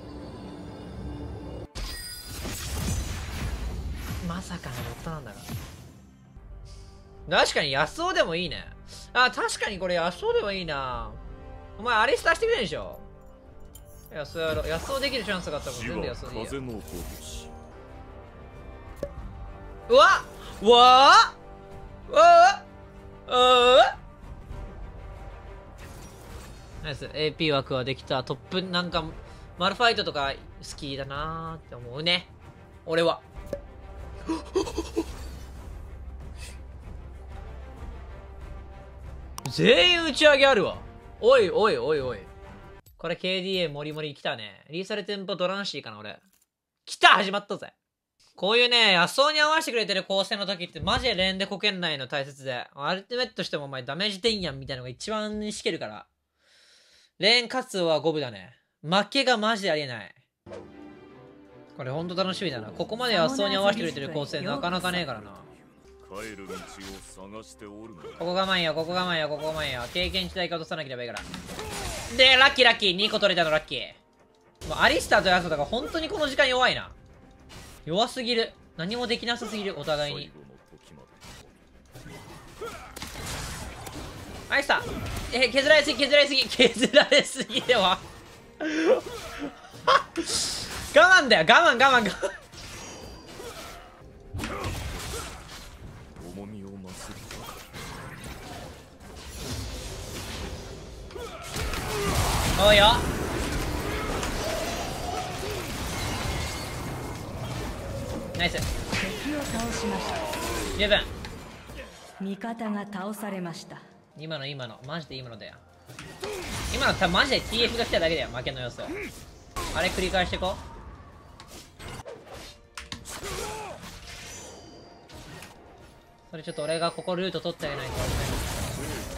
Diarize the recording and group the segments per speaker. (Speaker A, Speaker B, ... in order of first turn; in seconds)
Speaker A: 4.2-5.5, 7.3-11.2, 11.8-13.1, 14.1-16.6, 19.9-21.4, 22.1-22.6, 23.3-23.9, 26.8-32.3, 32.9-33.2, 39.5-42.3, 43.0-46.2, 46.9-47.7, 48.4-56.1, 57.2-60.2, 61.8-65.5, 68.2-71.3, 72.1-74.0, 74.7-76.9, 77.9-80.3, 84.5-88.0, 88.6-89.1, 89.9-92.3, 102.6-103.0, 108.4-108.7, 110.8-111.1, 114.2-115.6, 116.7-119.0, 119.7-120.6, 126.3-128.7
Speaker B: 15.7-17.5, 65.4-68.3, 80.0-81.7, 96.2-97.9
Speaker C: 63.1-65.1, 109.0-110.3, 112.2-113.8